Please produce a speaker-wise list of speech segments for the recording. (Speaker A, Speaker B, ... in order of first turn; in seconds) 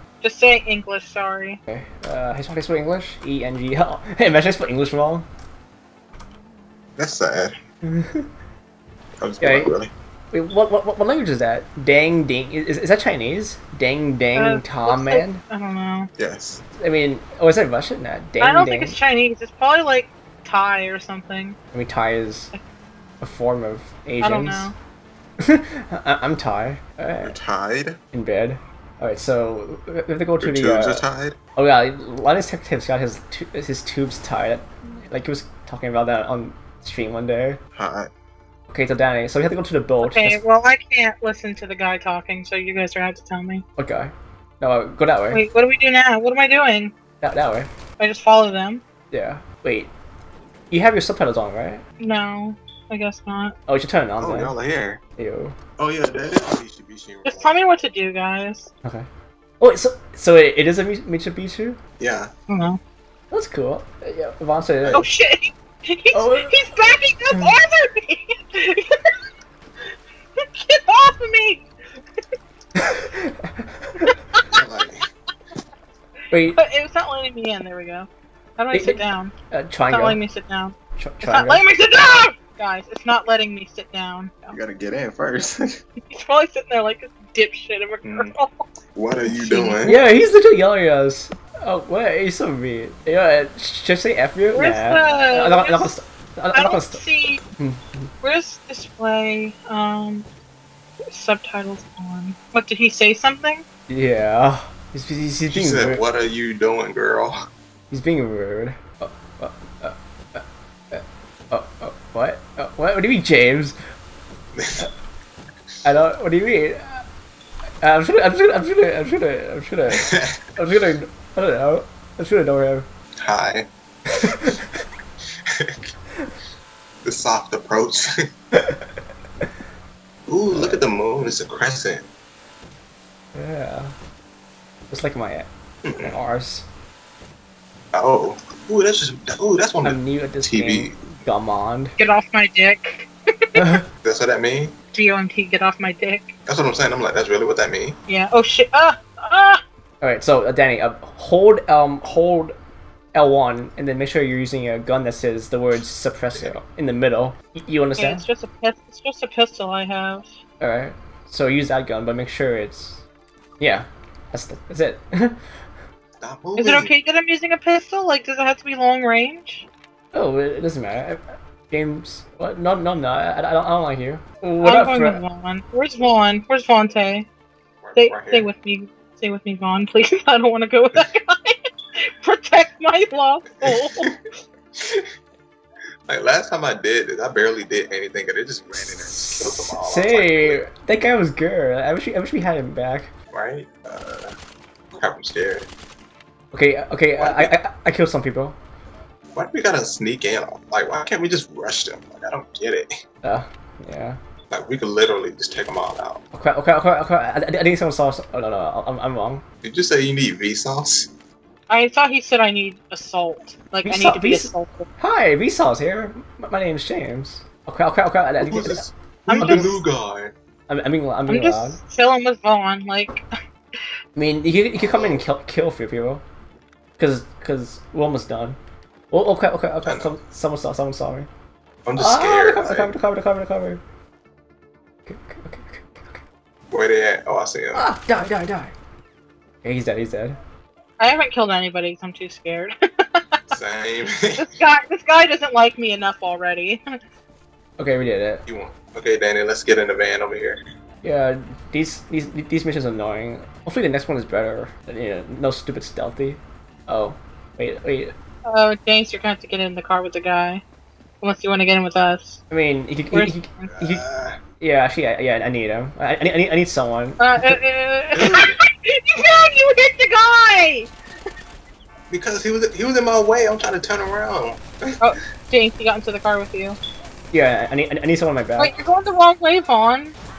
Speaker A: 0.2-1.6, 14.4-16.1, 18.4-21.6, 24.2-24.8, 40.0-43.6, 45.3-46.9, 48.0-48.8, 52.0-53.5, 57.2-58.7, 62.5-62.8, 64.9-69.2, 70.4-71.7, 74.0-74.5, 76.5-79.3, 79.9-84.5, 86.1-88.6, 89.2-89.8, 94.5-95.9, 96.5-97.4, 98.2-100.2, 101.1-103.6, 142.0-143.7, 144.9-146.3, 148.1-149.6, 158.0-160.4, 166.6-169.7, 174.6-177.3, 178.0-184.1, 211.7-214.9, 219.2-219.8, 221.3-223.2, 241.0-243.5, 244.4-247.0, 258.4-260.6, 261.2-262.4, 263.1-263.7, 267.2-270.9, 275.0-276.8, 278.6-280.1
Speaker B: 1.7-5.2, 7.8-8.3, 9.4-9.7, 10.3-15.4, 16.8-19.0, 21.7-22.5, 23.2-24.7, 25.4-27.4, 28.1-31.0, 31.6-37.6, 38.7-40.4, 43.8-45.4, 47.2-47.7, 49.1-49.9, 50.7-51.8, 53.7-54.5, 55.2-55.6, 59.6-61.8, 63.3-65.1, 66.1-66.6, 72.8-74.1, 76.3-76.6, 78.7-80.2, 81.0-81.6, 89.8-97.0, 97.6-98.1, 103.9-106.0, 107.9-113.8, 115.8-117.0, 117.8-122.9, 124.1-124.8, 128.5-128.9, 130.5-130.9, 133.3-133.9, 134.9-136.7, 139.8-141.9, 143.5-143.8, 150.0-152.5, 153.1-158.2, 160.6-163.0, 163.6-165.4, 170.1-175.2, 188.8-193.1, 196.5-198.6, 203.2-204.2, 206.3-209.4, 213.8-219.7, 220.7-221.8, 224.2-226.2, 227.0-228.6, 229.1-231.3, 231.9-233.8, 235.1-236.2, 237.7-238.7, 239.6-240.4, 247.8-248.4, 251.0-258.1, 262.5-264.0, 264.6-267.6, 277.3-278.7
Speaker C: 7.0-7.6, 9.2-9.9, 16.2-16.6, 27.2-28.0, 30.4-31.4, 37.8-38.1, 54.2-55.0, 55.8-57.6, 62.0-62.3, 74.5-75.0, 84.5-85.8, 88.0-88.3, 88.9-90.0, 105.5-107.5, 114.5-114.9, 119.9-120.4, 123.2-123.7, 124.2-124.6, 125.5-125.9, 127.0-128.1, 130.3-132.1, 135.8-136.1, 137.9-141.0, 144.0-144.7, 146.5-148.0, 166.2-166.9, 177.8-178.5, 183.6-184.2, 184.8-185.1, 186.1-190.6, 193.3-194.3, 194.9-195.7, 197.2-197.5, 199.3-202.9, 204.5-206.2, 209.6-211.1, 218.4-220.3, 224.8-225.2, 229.8-230.1, 231.8-232.9, 236.7-237.9, 243.5-244.6, 248.5-250.6, 263.7-264.4, 268.1-268.6, 272.1-275.1